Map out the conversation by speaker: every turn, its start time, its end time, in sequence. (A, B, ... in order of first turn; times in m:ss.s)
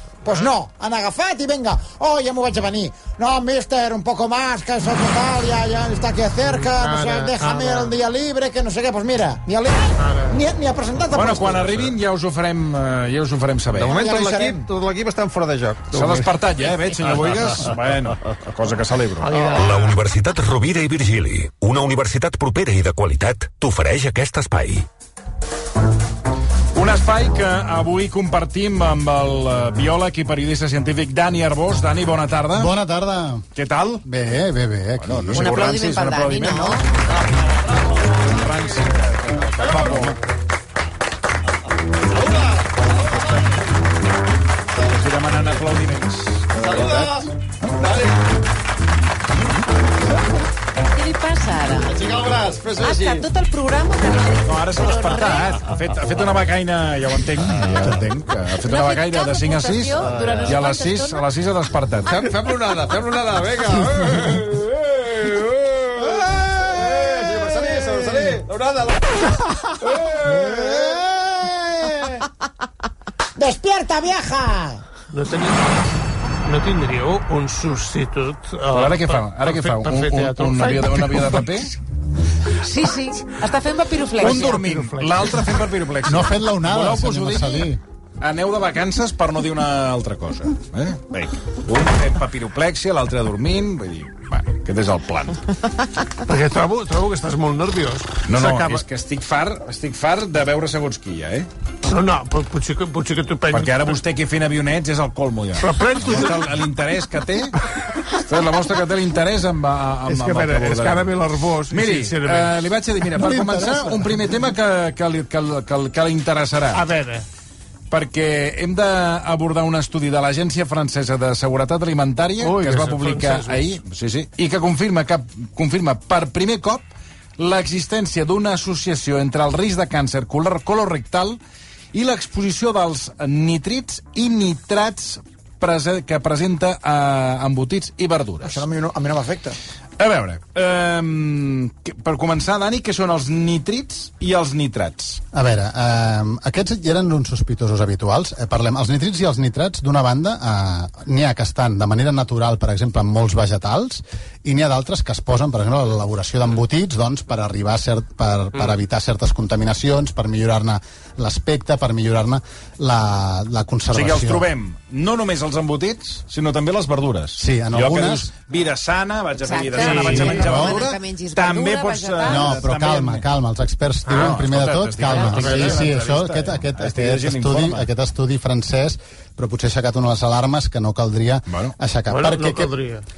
0:00.2-0:11.9 A
0:06.5-0:07.9 B
0:10.0-0:10.4 B
0:11.1-0:14.0 C
0:13.7-0:16.4 D
0:13.9-0:14.7 A
0:15.9-0:19.6 C
0:19.2-0:20.0 B
0:19.5-0:24.9 E
0:26.7-0:32.7 C
0:32.6-0:33.5 F
0:33.6-0:34.0 C
0:34.0-0:35.5 F
0:35.0-0:36.9 C
0:35.4-0:36.9 G
0:38.1-0:40.2 C
0:39.6-0:40.0 D
0:44.8-0:47.3 C
0:46.6-0:47.3 D
0:47.8-0:48.1 D
0:50.9-0:52.1 G
0:51.9-0:53.3 D
0:52.8-0:55.6 G
0:54.4-1:02.2 C
0:57.6-0:58.0 D
0:58.6-1:01.2 G
1:00.1-1:00.5 D
1:02.1-1:11.9 D
1:10.3-1:11.1 A
1:13.4-1:14.8 A
1:15.1-1:15.9 B
1:16.4-1:21.5 B
1:18.7-1:21.7 C
1:22.6-1:24.6 G
1:24.2-1:27.7 C
1:24.2-1:25.4 B
1:26.0-1:27.8 F
1:28.2-1:35.4 C
1:36.3-1:38.8 B
1:38.3-1:41.5 C
1:41.9-1:44.0 B
1:43.5-1:47.6 C
1:45.6-1:46.6 B
1:48.2-1:51.1 C
1:50.1-1:52.6 B
1:51.7-1:56.8 C
1:53.2-1:54.1 F
1:56.7-1:57.2 B
1:57.9-2:11.4 C
2:02.4-2:03.7 B
2:11.9-2:18.6 C
2:18.4-2:19.6 A
2:20.0-2:25.2 C
2:25.3-2:44.5 F
2:43.9-2:53.2 C
2:47.4-2:48.3 F
2:49.4-2:52.6 G
2:49.8-2:50.8 F
2:52.2-3:02.7 F
2:54.1-2:54.4 B
2:54.1-2:57.9 C
2:55.4-2:55.8 B
3:01.5-3:01.7 C
3:02.1-3:03.0 B